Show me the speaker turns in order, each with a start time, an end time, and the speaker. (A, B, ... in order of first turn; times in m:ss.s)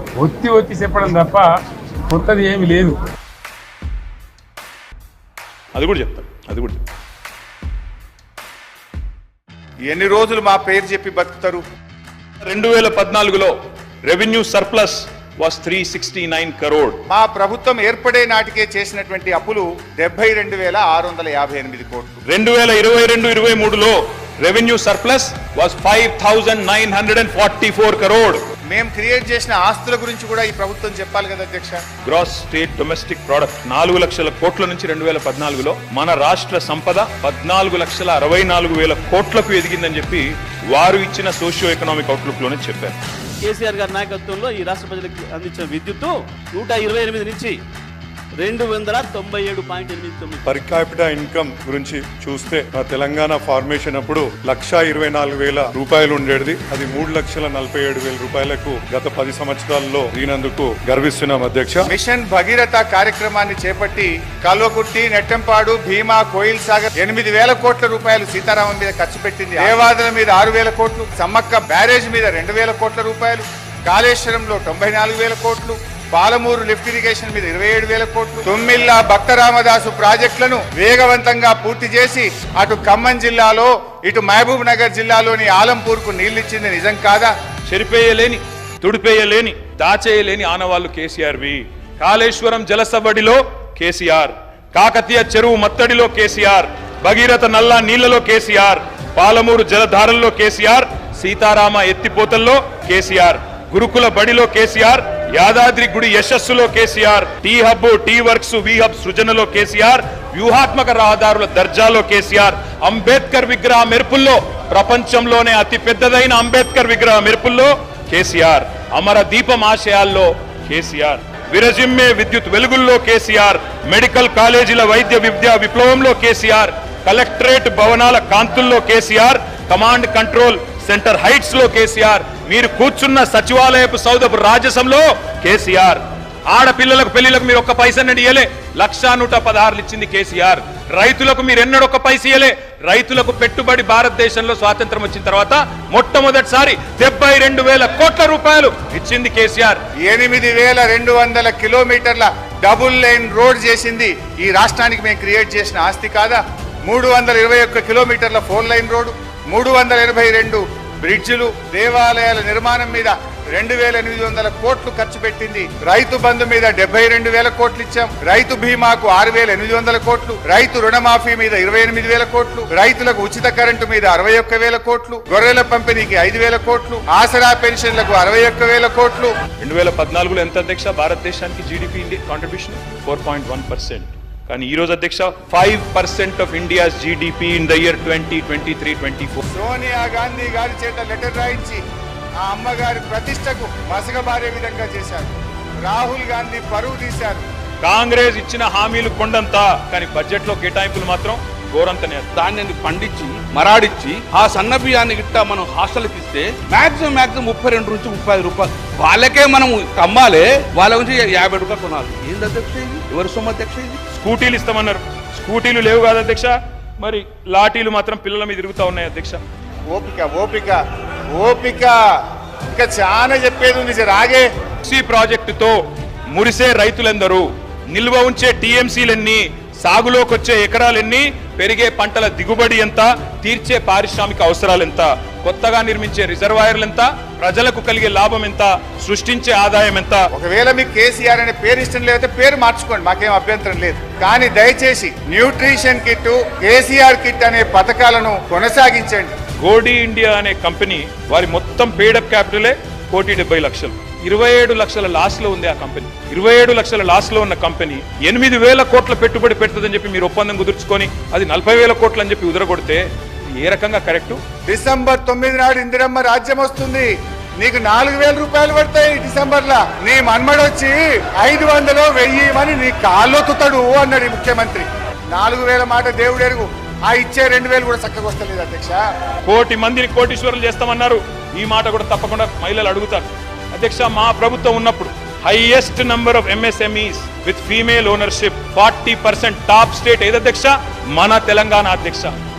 0:00.2-0:01.5 A
0:02.1-0:03.0 A
0:05.7-0:06.8 B
0:09.9-0:11.6 C
0:12.4-0:17.0 B
0:17.1-0:22.2 C
0:22.3-0:28.4 B
0:28.7-0:31.8 C
0:32.0-0:43.0 B
0:43.4-0:47.6 D
0:48.4-0:50.4 D
0:50.4-1:01.9 E
1:01.8-1:27.3 C
1:27.6-2:29.8 B
2:30.0-2:59.3 C
2:59.6-3:09.4 B
3:09.5-3:11.8 C
3:12.4-3:17.4 C
3:17.8-3:22.3 B
3:22.3-3:34.0 F
3:34.1-3:39.4 B
3:39.9-3:40.8 C
3:41.3-3:42.0 C
3:42.7-3:44.5 C
3:44.8-3:45.8 B
3:46.3-4:00.2 B
4:00.3-4:09.3 C
4:09.6-4:24.4 B
4:24.6-4:39.0 C
4:39.4-4:52.3 B